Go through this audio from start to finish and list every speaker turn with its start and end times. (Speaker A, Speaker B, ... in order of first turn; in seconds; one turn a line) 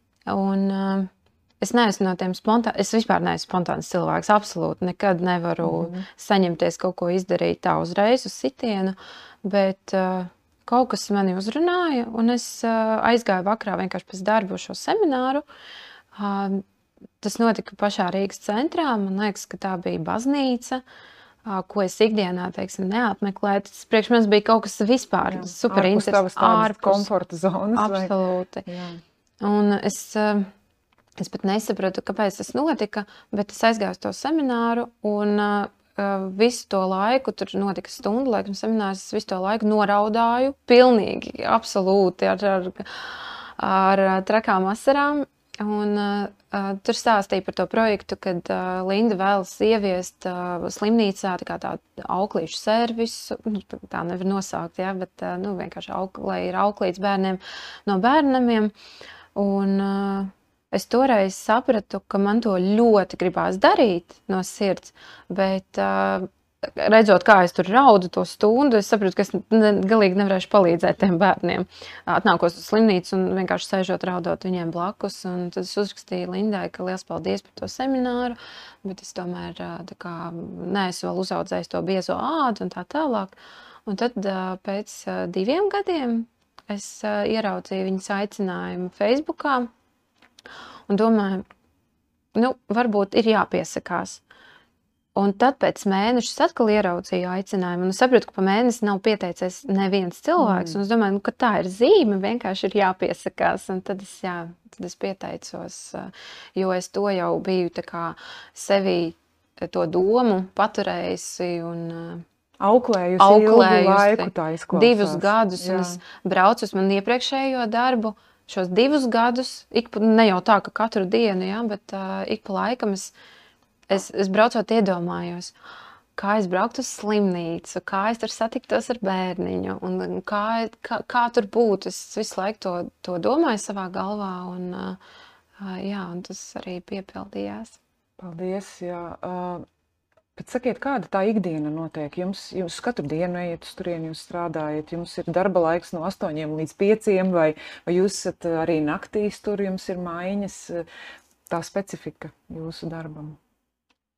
Speaker A: 0.3-15.4
Speaker B: 5.6-6.0
Speaker A: 16.1-16.6
Speaker A: 17.2-20.8
Speaker A: 21.4-27.1
Speaker B: 25.2-28.1
Speaker A: 27.7-28.6
Speaker B: 28.6-29.0
Speaker A: 29.4-30.5
Speaker A: 31.2-58.7
Speaker A: 59.3-89.7
Speaker A: 90.9-91.5
Speaker A: 92.3-94.2
Speaker A: 95.1-112.2
Speaker B: 100.4-100.8
Speaker B: 112.6-116.0
Speaker A: 113.2-123.1
Speaker A: 123.9-125.5
Speaker A: 126.1-135.0
Speaker A: 135.6-137.8
Speaker B: 138.2-139.6
Speaker B: 140.3-150.8
Speaker B: 151.5-153.4